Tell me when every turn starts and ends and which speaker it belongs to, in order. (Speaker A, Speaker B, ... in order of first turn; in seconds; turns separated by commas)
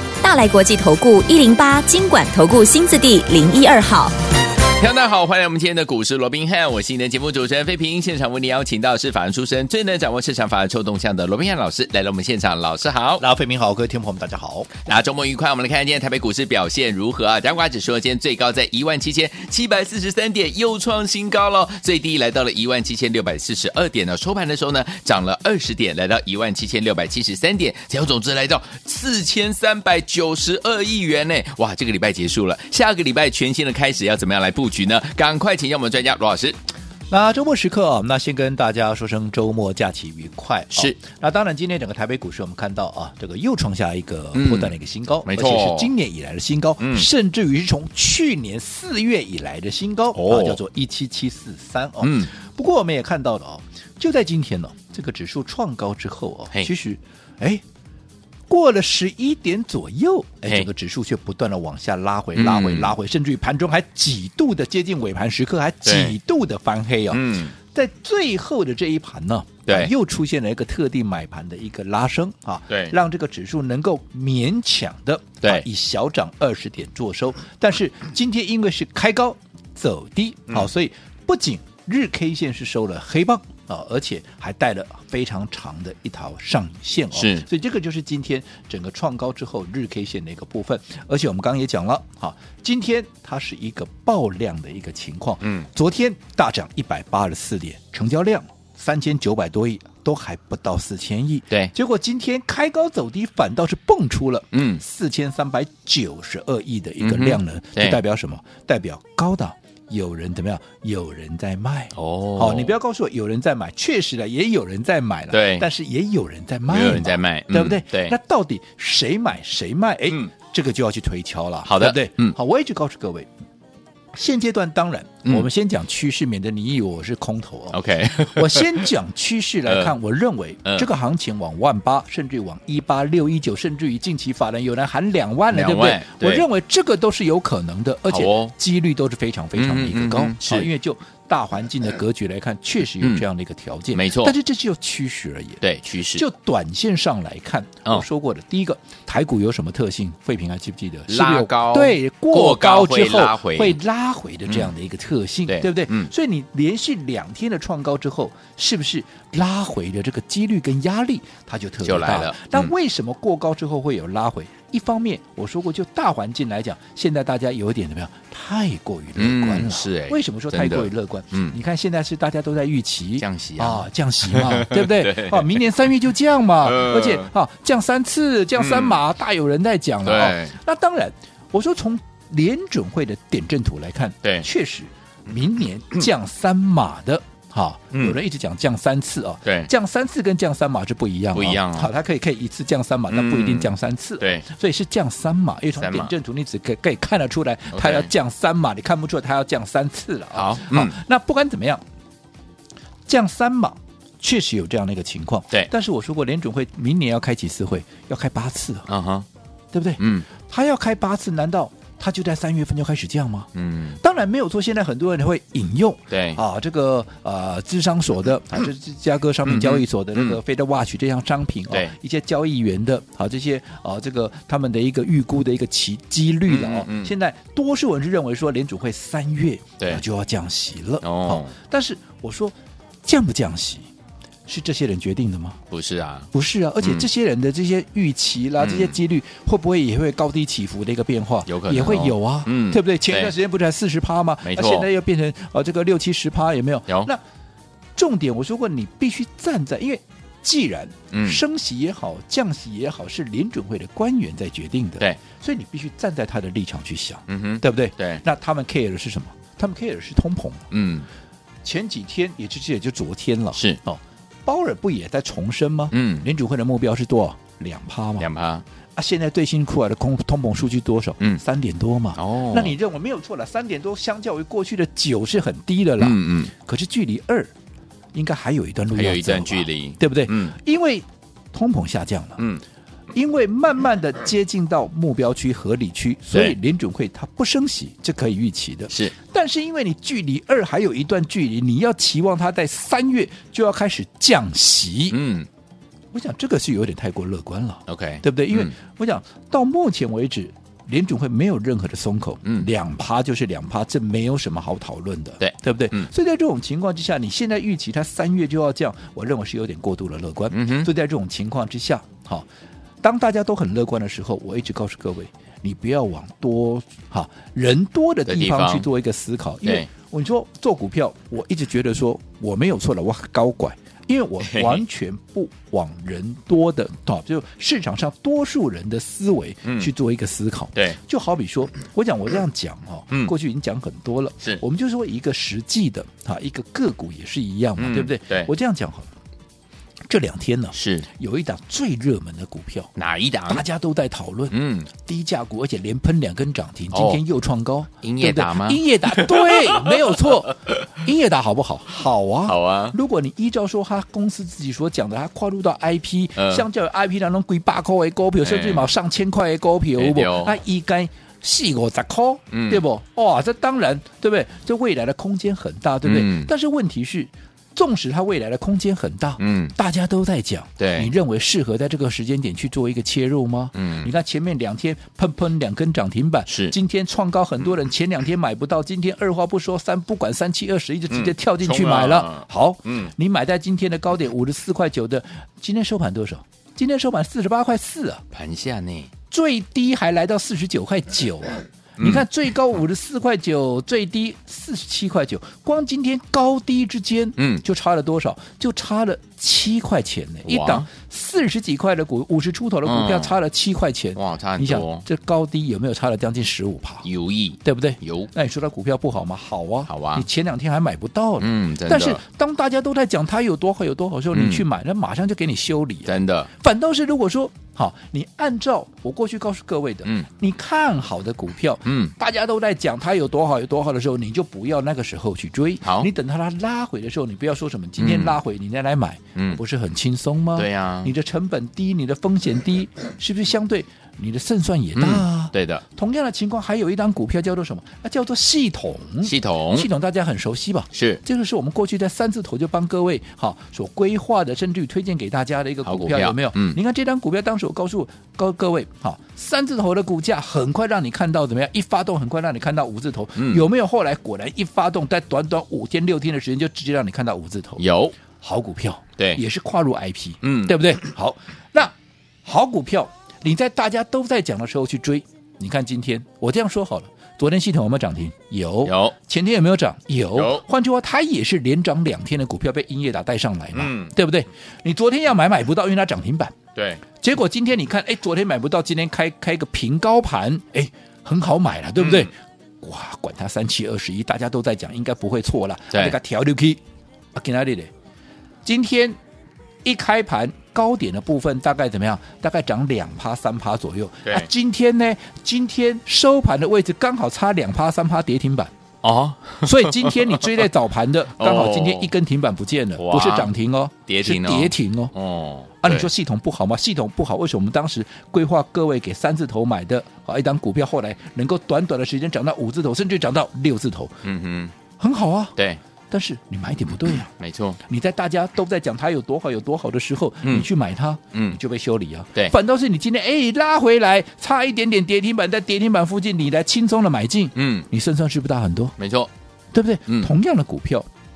Speaker A: 0.2-4.1, Speaker B: 4.7-13.2, Speaker C: 13.2-14.7, Speaker B: 14.8-36.6, Speaker C: 37.1-57.6, Speaker B: 44.3-44.7, Speaker B: 45.2-45.9, Speaker B: 46.8-47.1, Speaker B: 50.1-50.6, Speaker B: 52.0-52.3, Speaker C: 58.5-123.3, Speaker B: 62.3-62.9, Speaker B: 65.8-66.2, Speaker B: 67.1-67.5, Speaker B: 69.7-69.9, Speaker B: 72.7-73.0, Speaker B: 87.1-87.4, Speaker B: 95.4-95.7, Speaker B: 104.5-104.8, Speaker B: 107.0-108.0, Speaker B: 111.9-112.7, Speaker B: 115.3-115.7, Speaker B: 116.7-118.2, Speaker B: 121.6-122.4, Speaker C: 124.1-145.6, Speaker B: 127.7-128.9, Speaker B: 129.7-129.9, Speaker B: 135.5-136.4, Speaker B: 138.1-138.5, Speaker B: 139.5-140.7, Speaker B: 143.0-143.2, Speaker B: 143.9-144.3, Speaker B: 145.6-146.2, Speaker C: 146.1-201.8, Speaker B: 151.1-153.8, Speaker B: 155.5-156.1, Speaker B: 161.8-162.7, Speaker B: 169.2-171.6, Speaker B: 173.2-175.6, Speaker B: 176.6-177.3, Speaker B: 178.6-179.0, Speaker B: 180.0-180.5, Speaker B: 187.9-188.2, Speaker B: 189.4-189.7, Speaker B: 191.3-191.9, Speaker B: 193.1-194.4, Speaker B: 195.8-196.1, Speaker B: 197.7-198.1, Speaker B: 200.3-200.9, Speaker C: 203.1-208.9, Speaker B: 208.9-209.3, Speaker C: 209.7-233.9, Speaker B: 210.0-210.3, Speaker B: 213.5-214.0, Speaker B: 216.1-216.4, Speaker B: 219.4-220.4, Speaker B: 226.5-227.1, Speaker B: 231.0-231.5, Speaker C: 234.5-235.6, Speaker B: 235.7-236.3, Speaker C: 236.3-247.2, Speaker B: 236.8-237.1, Speaker B: 238.6-239.0, Speaker B: 241.5-243.3, Speaker B: 244.4-244.9, Speaker C: 247.9-260.7, Speaker B: 251.1-251.4, Speaker B: 257.3-258.2, Speaker B: 260.7-261.1, Speaker C: 261.6-268.3, Speaker B: 263.5-263.8, Speaker B: 265.9-266.3, Speaker B: 268.2-268.6, Speaker C: 268.9-277.5, Speaker B: 272.1-272.8, Speaker B: 276.0-276.5, Speaker C: 278.1-282.4, Speaker B: 278.9-280.5, Speaker C: 283.1-295.2, Speaker B: 288.9-289.1, Speaker B: 295.1-295.5, Speaker C: 296.1-312.4, Speaker B: 297.9-298.7, Speaker B: 305.4-306.1, Speaker B: 310.5-310.9, Speaker C: 313.0-339.1, Speaker B: 318.3-318.9, Speaker B: 324.5-324.8, Speaker B: 329.6-329.9, Speaker B: 337.8-338.5, Speaker C: 340.1-342.9, Speaker B: 340.7-341.1, Speaker B: 342.9-343.6, Speaker C: 343.5-388.2, Speaker B: 344.5-344.9, Speaker B: 346.9-347.2, Speaker B: 348.0-350.8, Speaker B: 352.5-352.9, Speaker B: 356.4-356.6, Speaker B: 358.4-358.9, Speaker B: 360.0-360.6, Speaker B: 362.5-362.8, Speaker B: 366.0-366.5, Speaker B: 369.4-369.7, Speaker B: 370.8-371.1, Speaker B: 373.7-374.1, Speaker B: 376.5-376.8, Speaker B: 381.1-383.1, Speaker B: 388.3-389.1, Speaker C: 389.3-407.0, Speaker B: 392.0-392.2, Speaker B: 397.4-397.6, Speaker B: 400.4-400.9, Speaker B: 402.8-403.3, Speaker B: 404.1-405.0, Speaker B: 407.0-408.3, Speaker C: 407.6-461.9, Speaker B: 409.9-410.2, Speaker B: 411.4-412.2, Speaker B: 414.3-414.6, Speaker B: 416.0-416.5, Speaker B: 421.8-422.1, Speaker B: 425.8-426.1, Speaker B: 428.0-428.4, Speaker B: 429.4-429.6, Speaker B: 430.6-431.1, Speaker B: 434.9-435.8, Speaker B: 439.2-439.9, Speaker B: 440.9-441.2, Speaker B: 445.8-446.8, Speaker B: 453.4-453.6, Speaker B: 457.8-458.1, Speaker B: 460.4-460.9, Speaker C: 462.4-476.6, Speaker B: 468.8-469.1, Speaker B: 470.3-470.6, Speaker B: 473.7-474.1, Speaker B: 476.7-477.0, Speaker C: 477.2-486.8, Speaker B: 482.0-482.3, Speaker C: 487.3-487.9, Speaker C: 488.6-489.2, Speaker C: 489.8-498.7, Speaker B: 499.0-500.6, Speaker C: 499.6-505.1, Speaker B: 501.4-502.1, Speaker B: 503.0-503.5, Speaker B: 504.1-506.1, Speaker C: 505.8-514.2, Speaker B: 514.2-514.7, Speaker C: 515.0-515.5, Speaker C: 516.1-517.3, Speaker B: 517.3-517.8, Speaker C: 517.8-529.0, Speaker B: 521.3-521.6, Speaker B: 527.5-527.9, Speaker B: 529.0-529.3, Speaker C: 529.7-531.1, Speaker B: 530.1-530.3